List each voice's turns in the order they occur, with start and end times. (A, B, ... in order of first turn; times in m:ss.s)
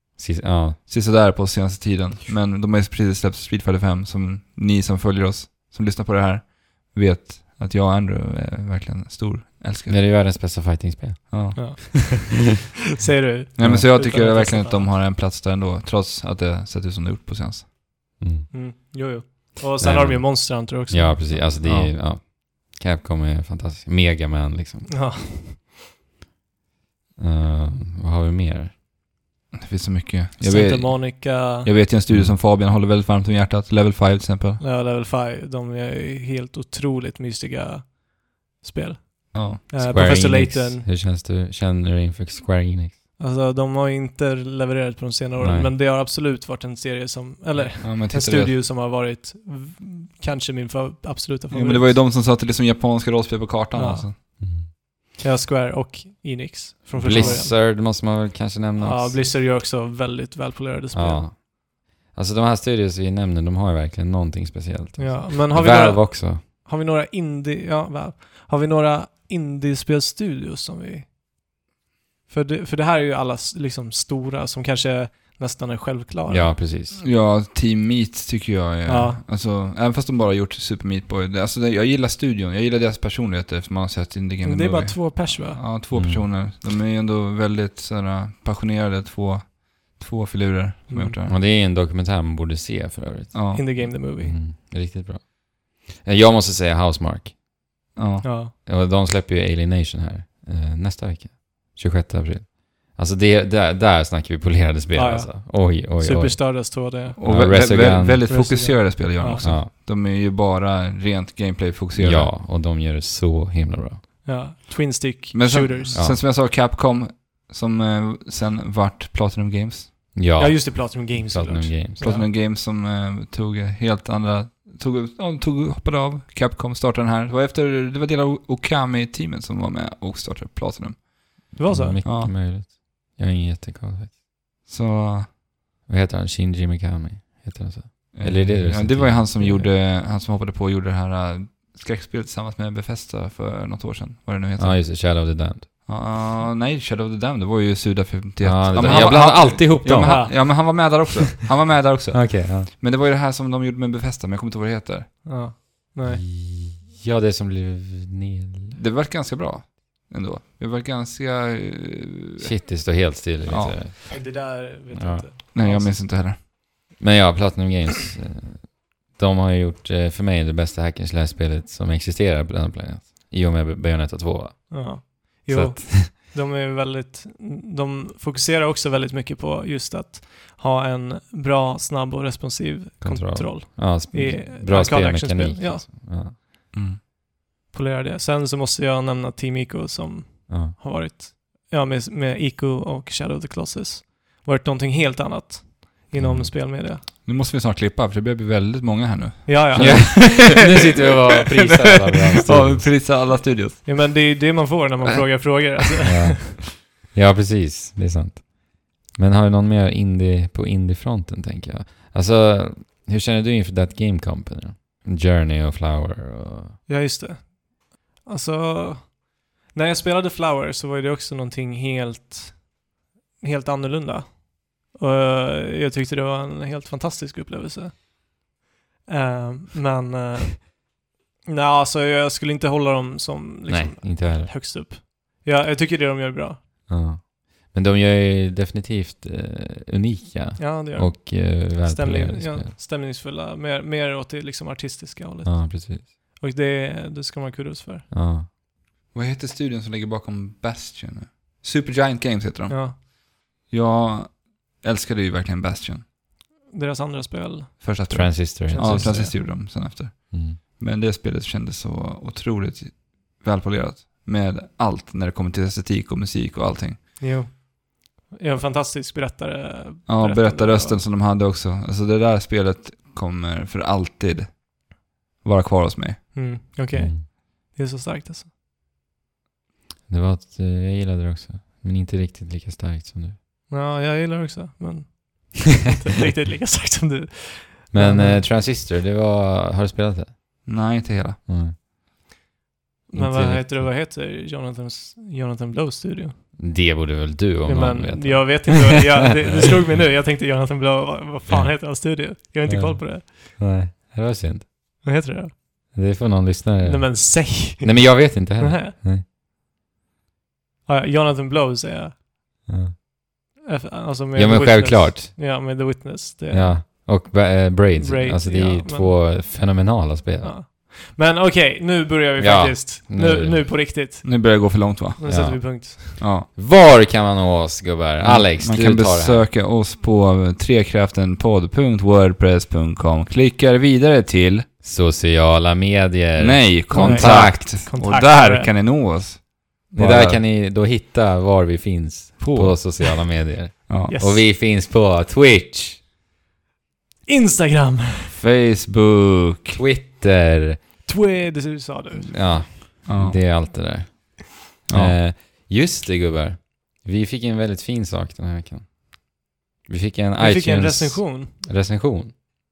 0:00.2-0:00.8 A
0:00.9-0:10.0 B
0:09.9-0:11.8 A
0:11.3-0:11.6 B
0:11.6-0:14.9 C
0:13.6-0:17.7 B
0:18.2-0:18.5 A
0:18.5-0:21.5 C
0:19.8-0:25.3 A
0:21.6-0:21.9 B
0:24.9-0:25.7 C
0:27.2-0:28.7 A
0:29.5-0:34.6 B
0:30.4-0:31.7 C
0:32.1-0:32.4 A
0:34.6-0:38.0 C
0:38.6-0:40.8 C
0:39.3-0:39.6 B
0:39.8-0:43.0 A
0:43.2-0:52.0 C
0:45.4-0:45.7 A
0:47.8-0:48.5 B
0:51.5-0:54.2 B
0:53.7-0:54.5 C
0:54.4-0:54.7 A
0:55.2-0:57.6 C
0:57.0-0:59.3 A
0:57.1-0:57.4 B
0:58.8-1:01.3 C
1:00.9-1:06.4 A
1:05.0-1:11.1 C
1:12.3-1:16.6 C
1:16.3-1:17.0 A
1:17.0-1:31.3 B
1:18.8-1:19.2 C
1:24.4-1:25.6 C
1:25.9-1:26.2 A
1:30.9-1:31.2 C
1:31.2-1:37.3 A
1:33.3-1:33.6 B
1:33.5-1:34.4 C
1:38.0-1:38.3 B
1:38.2-1:38.5 C
1:38.6-1:48.3 A
1:44.9-1:47.2 C
1:47.2-1:52.3 B
1:48.3-1:49.5 C
1:49.4-1:49.7 A
1:52.0-1:54.0 A
1:54.2-1:56.0 C
1:55.3-1:59.9 B
1:55.9-1:56.2 A
2:00.1-2:02.1 A
2:00.3-2:02.3 C
2:02.0-2:11.5 B
2:11.6-2:12.2 C
2:11.7-2:14.1 A
2:12.0-2:12.3 B
2:14.6-2:15.3 B
2:15.9-2:19.6 A
2:18.1-2:24.9 B
2:24.6-2:25.7 A
2:25.8-2:35.3 B
2:28.4-2:30.8 A
2:28.8-2:29.2 C
2:30.0-2:30.4 C
2:32.1-2:32.7 A
2:35.2-2:36.2 C
2:36.0-2:38.8 A
2:38.7-2:42.5 B
2:42.4-2:45.2 A
2:43.5-2:43.8 B
2:44.1-2:46.0 C
2:45.5-2:46.4 B
2:47.0-2:56.1 A
2:54.7-3:05.8 C
3:03.0-3:06.4 A
3:06.7-3:07.0 B
3:07.7-3:17.0 C
3:10.5-3:10.7 A
3:16.2-3:16.5 A
3:17.2-3:21.0 B
3:19.4-3:20.5 C
3:19.8-3:23.0 A
3:21.5-3:23.8 B
3:23.8-3:26.5 C
3:26.0-3:36.8 A
3:36.9-3:42.7 C
3:43.4-3:48.1 C
3:49.1-3:56.6 C
3:53.7-3:54.5 A
3:56.9-4:02.7 A
4:00.6-4:08.1 C
4:05.4-4:06.1 A
4:08.1-4:08.5 A
4:09.1-4:13.0 B
4:12.7-4:13.0 C
4:13.7-4:16.0 B
4:16.7-4:19.3 C
4:17.8-4:27.0 B
4:18.1-4:20.6 A
4:27.2-4:31.0 C
4:30.1-4:34.7 B
4:35.4-4:36.3 B
4:36.3-4:38.5 C
4:36.9-4:37.3 A
4:40.1-4:43.4 A
4:43.7-4:48.4 C
4:47.9-4:50.4 A
4:50.6-4:51.4 B
4:51.5-4:51.8 A
4:53.1-4:56.6 C
4:53.1-4:53.9 A
4:56.6-4:58.9 A
4:57.6-5:03.6 C
5:01.5-5:02.1 A
5:02.6-5:04.7 A
5:05.0-5:05.6 C
5:05.9-5:09.2 A
5:06.8-5:08.9 C
5:10.9-5:12.2 C
5:12.7-5:12.9 A
5:13.6-5:17.0 C
5:14.3-5:15.4 A
5:16.5-5:20.6 A
5:18.0-5:19.2 C
5:20.4-5:26.2 C
5:22.4-5:23.6 A
5:24.2-5:25.2 B
5:25.2-5:29.5 A
5:26.2-5:26.5 B
5:28.2-5:34.6 B
5:34.8-5:37.8 A
5:36.4-5:40.4 B
5:36.9-5:38.7 C
5:39.9-5:46.0 A
5:42.4-5:43.2 B
5:43.9-5:44.1 B
5:44.1-5:44.5 C
5:47.3-5:48.3 C
5:48.3-5:49.8 B
5:49.7-5:50.8 A
5:51.0-5:52.6 C
5:52.3-6:02.3 A
5:53.0-5:53.4 B
5:54.9-5:55.2 B
6:00.4-6:01.5 C